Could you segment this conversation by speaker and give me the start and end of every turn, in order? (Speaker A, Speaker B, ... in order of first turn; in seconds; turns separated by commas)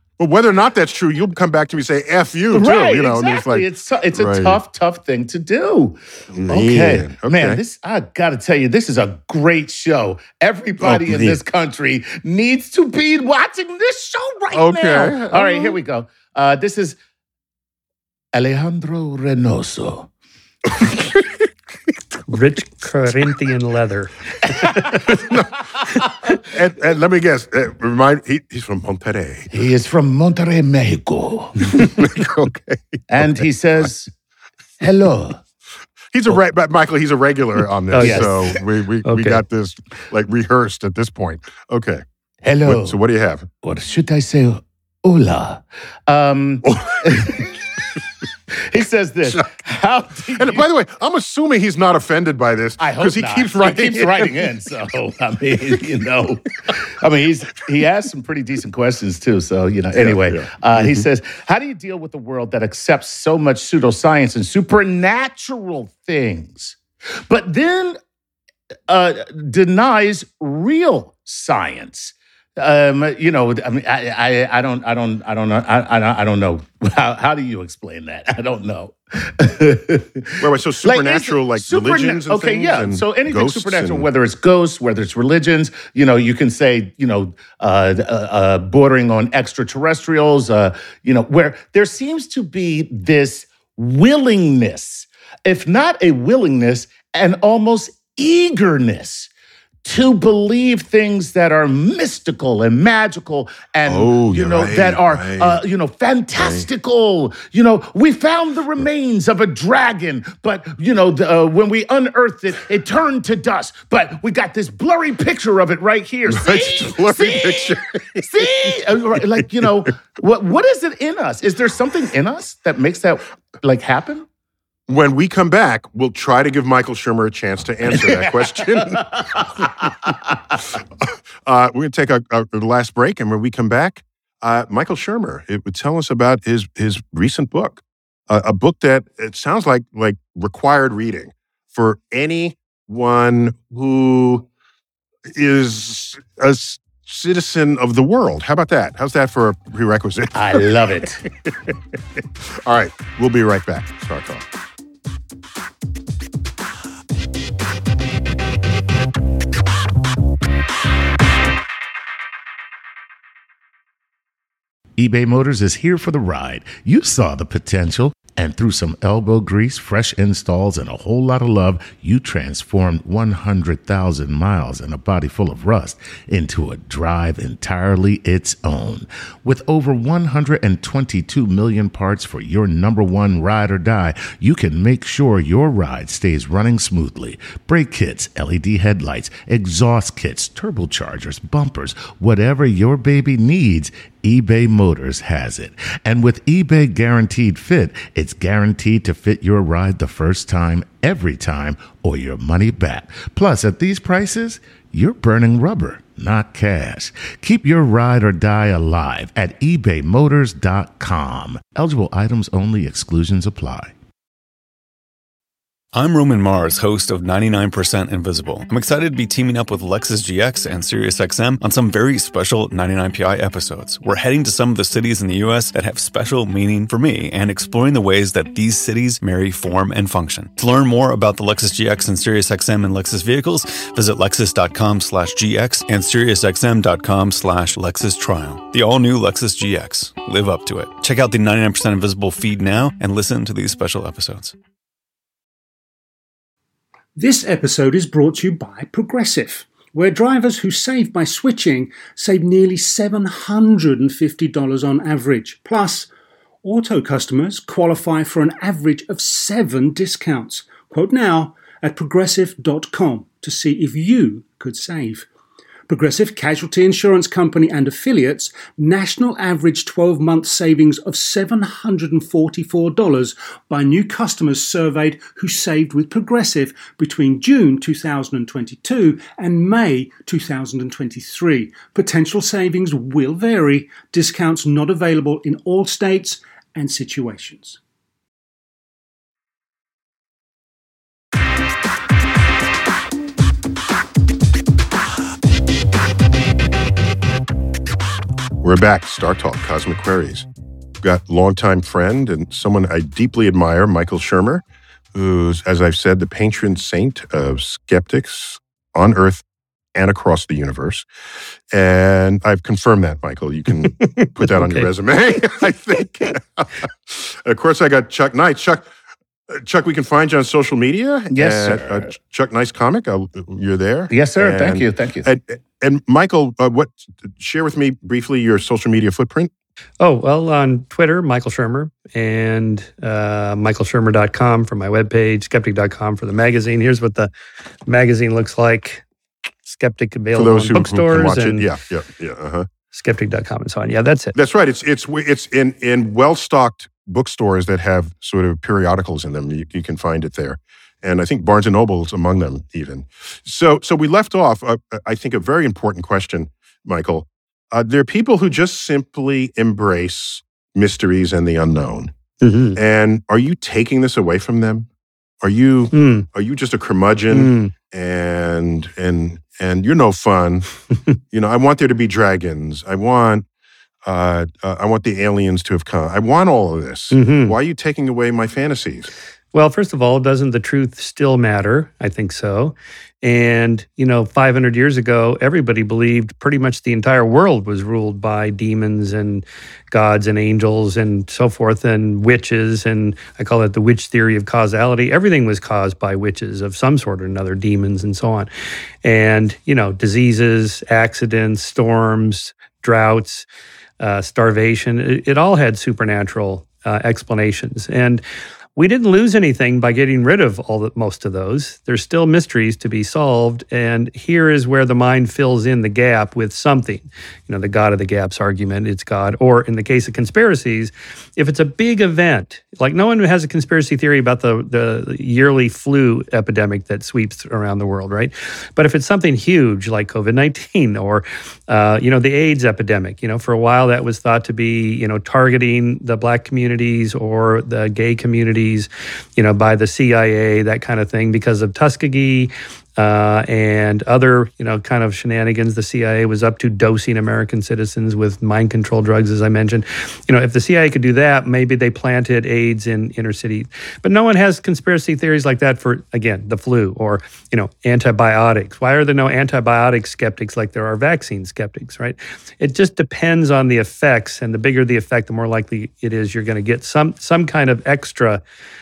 Speaker A: 0.2-4.6, Speaker B: 2.5-17.0, Speaker A: 6.3-7.6, Speaker A: 10.8-11.4, Speaker A: 14.5-15.8, Speaker B: 18.3-20.1, Speaker A: 20.7-21.4, Speaker C: 22.3-25.0, Speaker A: 25.1-25.8, Speaker A: 26.4-29.5, Speaker B: 29.5-31.7, Speaker A: 31.8-33.4, Speaker B: 33.1-34.1, Speaker B: 34.8-35.4, Speaker A: 36.1-42.0, Speaker C: 37.9-38.3, Speaker B: 38.0-38.6, Speaker C: 39.0-39.4, Speaker B: 42.4-43.0, Speaker A: 42.6-43.5, Speaker B: 43.6-47.6, Speaker A: 46.6-47.5, Speaker B: 48.5-50.6, Speaker A: 50.3-54.3, Speaker B: 52.8-68.0, Speaker A: 59.9-61.0, Speaker B: 68.9-99.3, Speaker A: 80.4-84.0, Speaker B: 99.8-124.2, Speaker A: 103.8-105.6, Speaker A: 106.4-106.7, Speaker A: 116.3-118.5, Speaker A: 124.9-129.7, Speaker B: 127.9-130.4, Speaker A: 130.7-144.4, Speaker A: 145.3-150.6, Speaker B: 150.3-151.2, Speaker A: 152.6-154.4, Speaker B: 165.0-213.9, Speaker D: 215.9-244.6, Speaker E: 247.1-256.1, Speaker E: 256.6-265.3, Speaker E: 265.9-287.8, Speaker A: 298.6-300.5, Speaker A: 301.0-304.6, Speaker A: 305.1-309.4, Speaker A: 309.9-311.1, Speaker A: 311.7-318.9, Speaker C: 314.2-314.9, Speaker A: 319.5-329.5, Speaker B: 321.3-322.1, Speaker B: 324.1-325.3, Speaker C: 330.0-337.3, Speaker C: 337.9-339.0, Speaker C: 339.6-341.7, Speaker A: 340.3-342.7, Speaker C: 342.9-344.3, Speaker A: 344.3-362.1, Speaker C: 362.4-362.8, Speaker A: 362.8-364.9, Speaker A: 365.4-370.7, Speaker C: 365.9-366.3, Speaker C: 367.3-367.7, Speaker A: 371.3-373.4, Speaker A: 374.0-379.1, Speaker C: 377.1-377.6, Speaker C: 379.5-398.5, Speaker C: 399.0-403.4, Speaker C: 404.0-408.2, Speaker C: 408.8-468.4